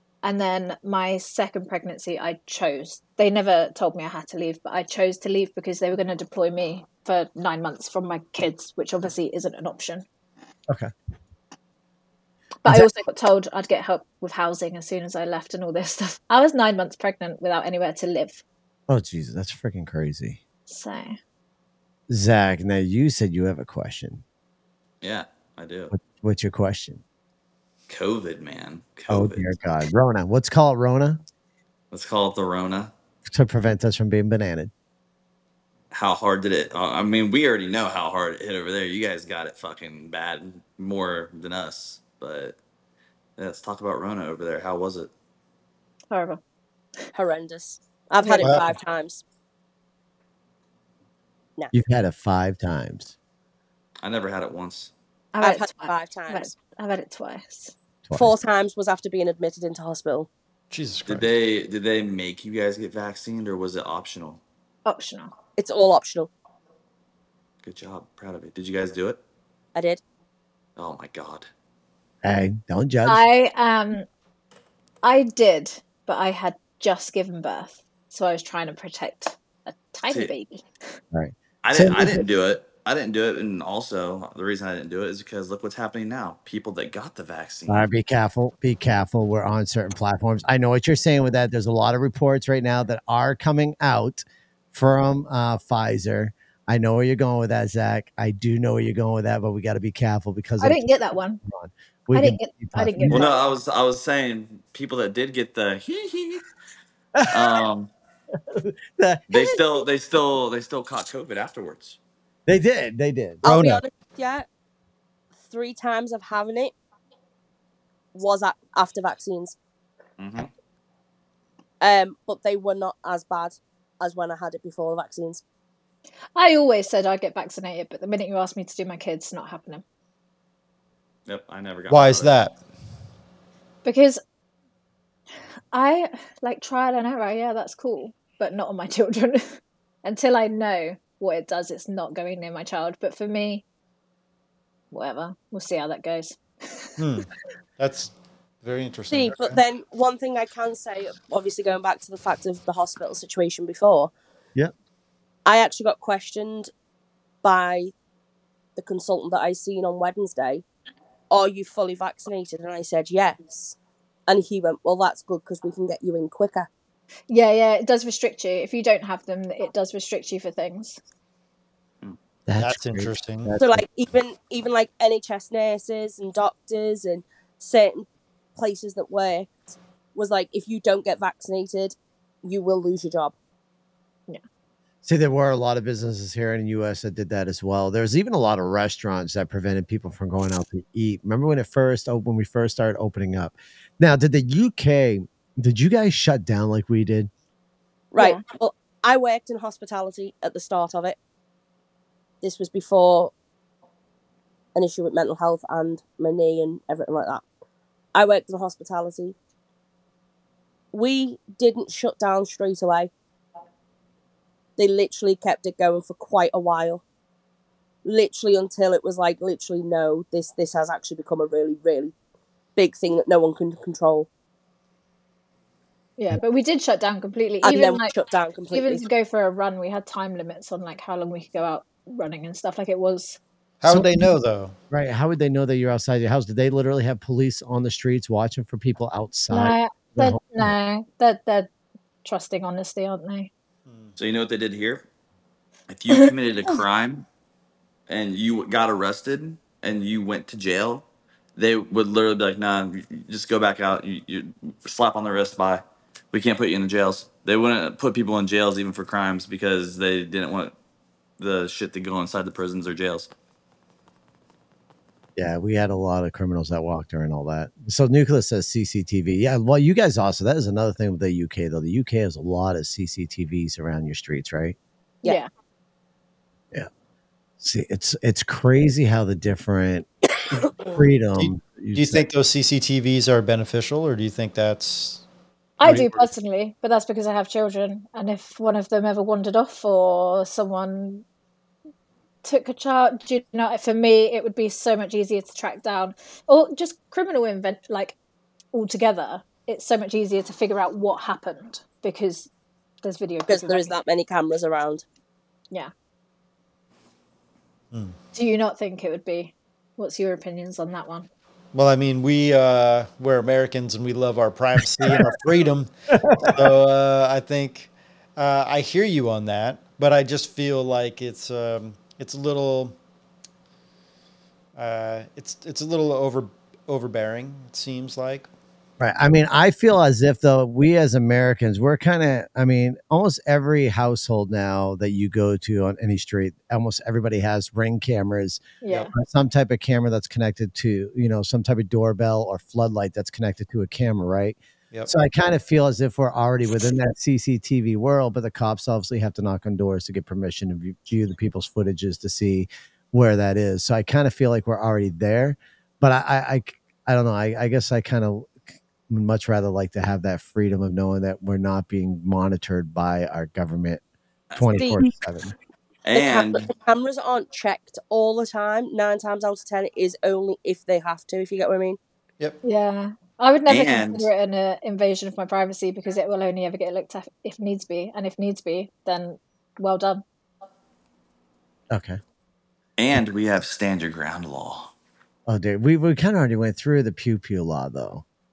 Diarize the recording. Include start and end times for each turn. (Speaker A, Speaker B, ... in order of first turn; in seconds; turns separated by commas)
Speaker A: 0.2-10.0, Speaker A: 12.6-18.4, Speaker B: 18.9-20.4, Speaker A: 20.7-21.2, Speaker B: 22.1-24.2, Speaker C: 25.0-25.9, Speaker B: 25.9-27.0, Speaker C: 27.9-29.5, Speaker B: 29.1-31.2, Speaker C: 31.9-32.9, Speaker B: 33.3-34.7, Speaker C: 35.9-42.5, Speaker C: 43.4-45.1, Speaker A: 46.1-46.4, Speaker D: 47.1-49.2, Speaker A: 48.2-48.5, Speaker B: 51.7-53.1, Speaker C: 54.0-54.9, Speaker A: 55.3-57.7, Speaker D: 55.4-56.5, Speaker B: 58.0-58.3, Speaker D: 58.1-60.3, Speaker E: 60.7-61.3, Speaker C: 61.0-64.4, Speaker A: 64.8-65.3, Speaker D: 65.6-66.3, Speaker C: 67.6-69.2, Speaker D: 69.7-70.0, Speaker C: 70.8-71.5, Speaker B: 72.2-73.2, Speaker A: 73.0-74.0, Speaker A: 75.0-80.6, Speaker B: 81.1-82.2, Speaker C: 81.6-87.9, Speaker B: 87.7-103.3, Speaker A: 100.6-101.4, Speaker A: 102.1-103.4, Speaker C: 103.1-106.4, Speaker B: 107.2-107.6, Speaker C: 107.3-107.9, Speaker B: 108.5-109.6, Speaker C: 109.3-112.0, Speaker B: 112.5-113.5, Speaker D: 113.4-114.5, Speaker E: 113.5-113.7, Speaker D: 115.4-116.7, Speaker D: 118.1-119.5, Speaker C: 120.2-120.5, Speaker D: 121.8-125.4, Speaker A: 126.3-129.8, Speaker C: 131.3-132.3, Speaker E: 131.9-132.5, Speaker A: 133.8-134.2, Speaker A: 135.7-143.6, Speaker A: 144.9-146.9, Speaker E: 147.0-149.6, Speaker D: 149.1-154.1, Speaker D: 155.4-156.7, Speaker D: 157.4-157.9, Speaker D: 158.8-160.6, Speaker D: 161.3-166.7, Speaker A: 167.3-171.0, Speaker B: 172.5-173.8, Speaker E: 172.6-173.5, Speaker D: 173.6-179.5, Speaker D: 180.1-183.3, Speaker B: 185.0-197.3, Speaker D: 198.1-201.2, Speaker A: 198.2-198.4, Speaker D: 202.4-203.3, Speaker D: 204.7-207.4, Speaker D: 208.1-209.3, Speaker D: 210.9-213.1, Speaker D: 214.8-217.0, Speaker D: 218.0-222.1, Speaker D: 222.8-224.3, Speaker A: 226.2-228.1, Speaker D: 227.6-229.1, Speaker A: 228.7-233.4, Speaker E: 233.8-234.8, Speaker B: 233.9-234.3, Speaker B: 234.9-240.7, Speaker A: 239.5-241.7, Speaker A: 242.2-243.5, Speaker E: 243.9-244.1, Speaker C: 244.2-245.0, Speaker C: 245.9-247.2, Speaker C: 248.1-260.7, Speaker C: 261.4-263.3, Speaker B: 265.4-274.8, Speaker A: 275.2-275.5, Speaker B: 277.6-280.1, Speaker B: 280.8-282.2, Speaker E: 281.4-285.2, Speaker A: 285.8-291.2, Speaker E: 285.8-286.2, Speaker A: 292.4-298.1, Speaker A: 298.7-302.5, Speaker A: 303.0-304.0, Speaker D: 303.5-305.0, Speaker A: 308.3-311.3, Speaker E: 311.7-322.9, Speaker B: 316.2-316.7, Speaker E: 324.8-328.5, Speaker B: 329.0-338.6, Speaker A: 338.8-339.1, Speaker B: 339.1-358.6, Speaker B: 359.1-364.0, Speaker C: 364.5-364.9, Speaker B: 364.5-365.5, Speaker D: 364.8-365.0, Speaker C: 366.1-366.7, Speaker D: 366.1-372.0, Speaker A: 372.6-380.2, Speaker C: 373.7-374.3, Speaker B: 381.9-382.2, Speaker C: 383.0-384.9, Speaker B: 385.5-388.2